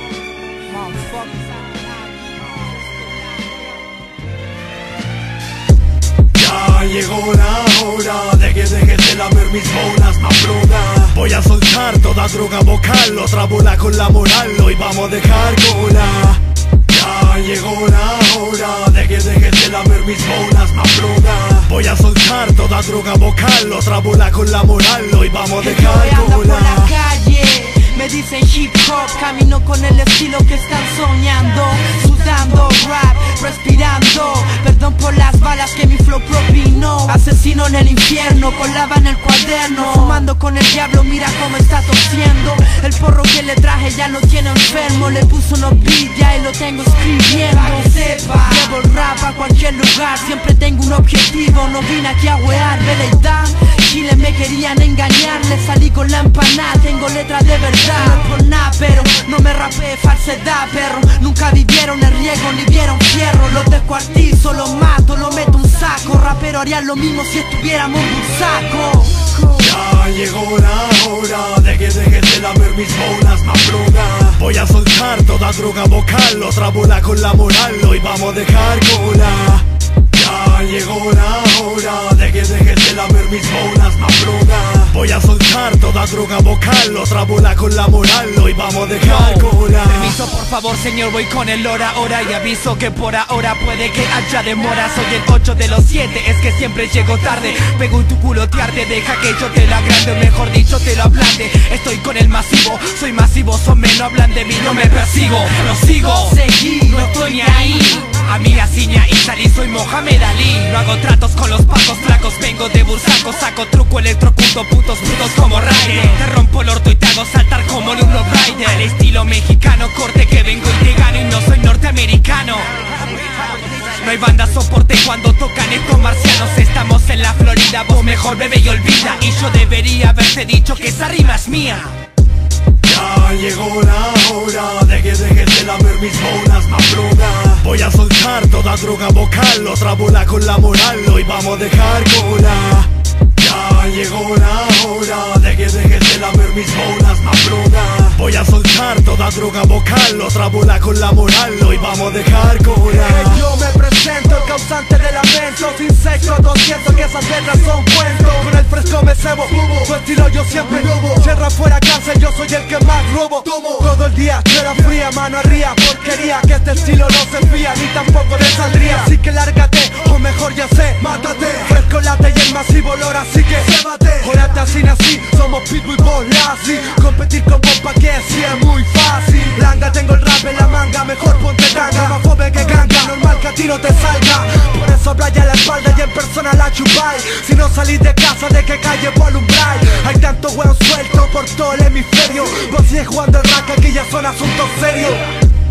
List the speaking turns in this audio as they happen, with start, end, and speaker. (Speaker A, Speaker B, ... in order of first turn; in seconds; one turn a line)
Speaker A: 0.7-2.5
Speaker B: 6.3-26.8
Speaker A: 25.6-69.5
Speaker B: 69.5-90.2
Speaker C: 89.0-132.0
Speaker A: 106.0-108.1
Speaker B: 132.8-153.4
Speaker D: 152.9-195.3